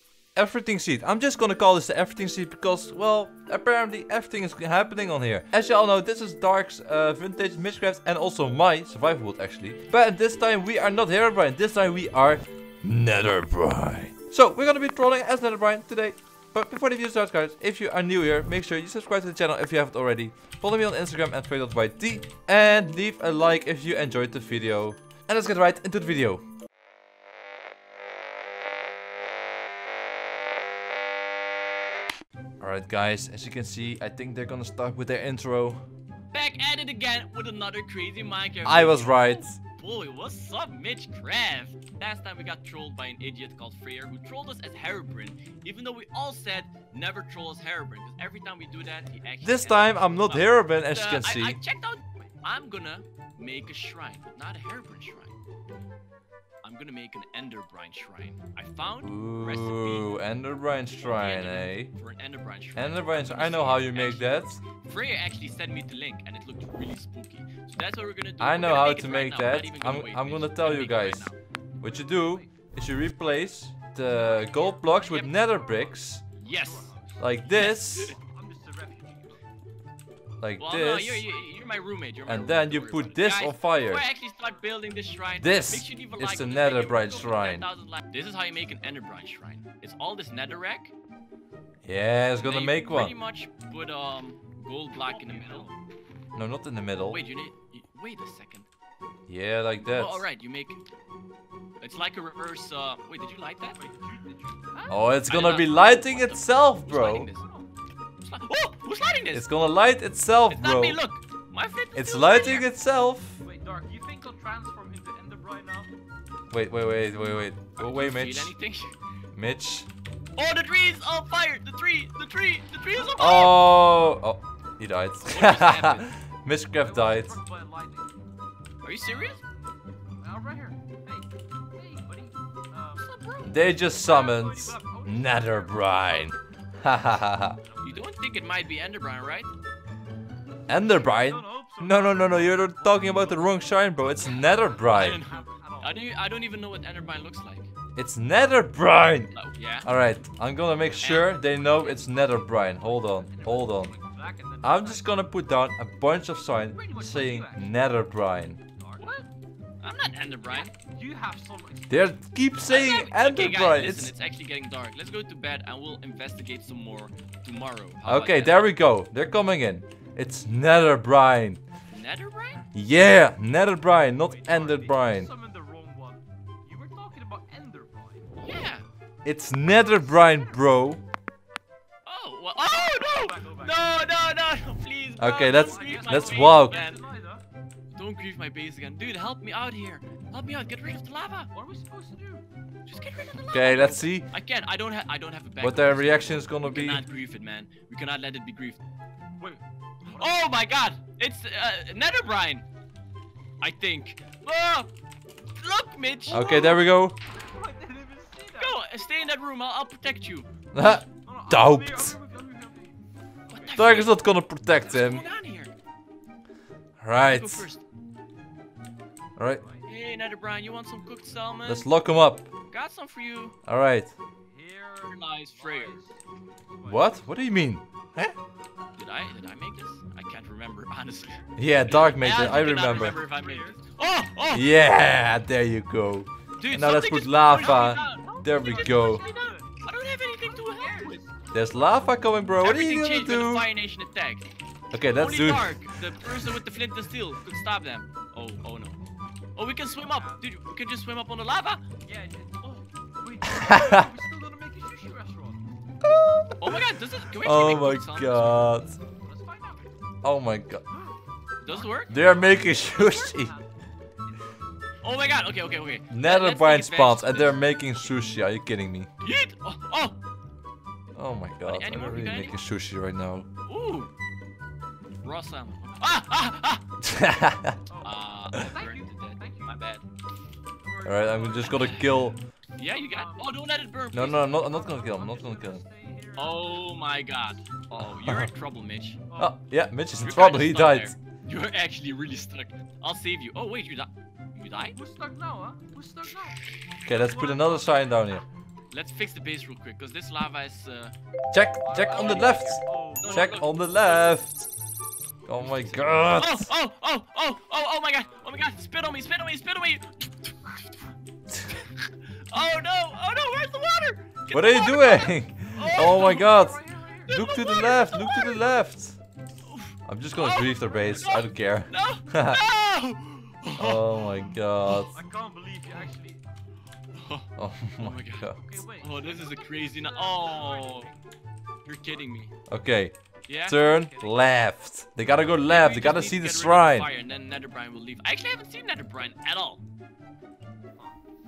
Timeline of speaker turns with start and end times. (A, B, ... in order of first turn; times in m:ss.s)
0:00.4-0:26.4 A
0:32.6-0:35.8 A
0:36.3-0:55.3 B
0:38.6-0:39.6 A
0:49.4-0:51.6 A
0:56.6-1:00.2 B
0:59.0-1:01.9 A
1:01.0-1:11.4 B
1:02.7-1:04.6 A
1:08.4-1:16.2 A
1:11.8-1:12.5 C
1:14.0-1:19.4 C
1:15.0-1:15.3 B
1:16.4-1:17.0 B
1:17.2-1:18.2 A
1:17.5-1:18.1 B
1:20.4-1:21.2 A
1:20.6-1:30.9 B
1:22.2-1:24.0 A
1:24.3-1:24.6 C
1:25.4-1:27.7 A
1:31.8-1:33.1 A
1:32.4-1:35.7 B
1:35.0-1:35.7 C
1:36.4-1:37.2 A
1:37.0-1:38.6 B
1:39.3-1:40.2 A
1:39.8-1:40.8 B
1:41.8-1:43.8 B
1:43.8-1:45.0 C
1:44.9-1:47.3 A
1:45.2-1:47.5 B
1:48.2-1:49.5 B
1:49.3-1:51.0 A
1:50.5-1:52.7 B
1:51.9-1:53.4 A
1:53.4-1:55.9 C
1:56.5-1:58.5 A
1:57.8-1:58.9 B
1:59.3-1:59.9 A
2:00.4-2:03.6 B
2:03.1-2:07.4 A
2:05.2-2:06.1 B
2:06.7-2:08.1 C
2:08.8-2:09.4 B
2:09.0-2:09.4 C
2:10.2-2:16.3 C
2:12.9-2:13.5 B
2:13.4-2:17.6 A
2:17.0-2:18.1 C
2:17.8-2:19.5 B
2:20.7-2:25.2 A
2:20.7-2:26.1 C
2:24.2-2:27.7 B
2:28.0-2:33.9 A
2:29.3-2:29.9 B
2:31.0-2:32.4 B
2:32.7-2:35.2 C
2:34.6-2:38.6 A
2:36.7-2:37.7 C
2:38.8-2:39.1 C
2:39.0-2:39.2 B
2:39.8-2:40.7 B
2:40.8-2:42.3 C
2:41.9-2:44.1 A
2:42.6-2:48.8 B
2:48.0-2:51.6 A
2:51.9-2:52.6 B
2:52.7-2:55.3 A
2:54.2-2:58.3 C
2:58.4-2:58.9 B
2:59.2-3:01.0 A
2:59.6-3:00.7 C
3:02.0-3:07.0 B
3:02.6-3:04.0 C
3:05.2-3:06.8 A
3:05.5-3:07.4 C
3:07.9-3:11.5 B
3:11.5-3:12.4 C
3:12.8-3:18.8 B
3:13.5-3:14.3 A
3:15.6-3:17.0 A
3:19.4-3:20.6 C
3:20.1-3:22.6 B
3:23.6-3:24.9 B
3:25.6-3:26.8 B
3:26.3-3:27.2 A
3:27.3-3:28.8 C
3:28.5-3:30.5 B
3:30.7-3:32.2 A
3:31.2-3:33.0 C
3:33.5-3:33.8 C
3:33.5-3:34.2 B
3:33.7-3:35.2 A
3:34.8-3:35.5 C
3:34.8-3:35.7 B
3:37.0-3:37.7 A
3:37.2-3:37.8 B
3:39.4-3:39.6 A
3:39.5-3:39.8 C
3:39.8-3:41.9 B
3:41.6-3:42.5 A
3:42.7-3:43.5 B
3:43.7-3:44.1 A
3:44.5-3:47.4 C
3:45.0-3:46.0 B
3:46.8-3:48.3 A
3:49.0-3:54.7 B
3:51.6-3:53.2 A
3:52.3-3:54.0 C
3:54.5-3:59.2 A
3:56.6-4:01.2 B
3:57.5-4:02.0 C
4:01.5-4:03.7 A
4:02.6-4:09.0 B
4:04.9-4:05.8 A
4:09.5-4:11.8 B
4:09.8-4:10.5 C
4:12.0-4:15.6 C
4:13.6-4:14.0 A
4:16.1-4:16.8 A
4:16.6-4:18.7 B
4:17.4-4:19.0 A
4:19.2-4:19.9 C
4:20.2-4:20.8 A
4:21.6-4:22.2 B
4:21.7-4:23.6 C
4:22.1-4:23.5 A
4:25.0-4:27.6 B
4:26.1-4:29.1 A
4:29.2-4:30.2 B
4:31.2-4:33.5 A
4:31.7-4:32.6 B
4:33.6-4:34.1 B
4:35.2-4:36.8 B
4:37.0-4:37.8 A
4:37.9-4:39.8 C
4:38.0-4:40.0 B
4:40.8-4:42.3 C
4:41.0-4:42.4 A
4:41.6-4:42.1 B
4:42.8-4:44.5 B
4:42.8-4:43.5 C
4:44.1-4:45.8 A
4:44.5-4:47.2 C
4:46.4-4:49.2 B
4:49.3-4:49.5 C
4:49.4-4:51.1 A
4:50.2-4:55.0 B
4:54.9-4:58.2 C
4:57.0-4:58.4 A
4:58.9-5:01.1 B
5:01.5-5:04.7 A
5:01.8-5:03.6 C
5:02.0-5:04.3 B
5:05.5-5:06.7 A
5:05.6-5:11.1 B
5:08.2-5:08.7 C
5:11.6-5:16.5 B
5:14.5-5:19.2 A
5:15.7-5:17.4 C
5:17.2-5:18.6 B
5:19.7-5:25.0 B
5:20.1-5:22.6 A
5:23.8-5:25.2 A
5:25.1-5:26.4 C
5:27.1-5:31.1 B
5:27.6-5:28.6 A
5:28.5-5:31.2 C
5:31.8-5:32.5 B
5:32.7-5:37.1 A
5:33.5-5:33.8 B
5:33.8-5:34.5 C
5:35.6-5:39.8 B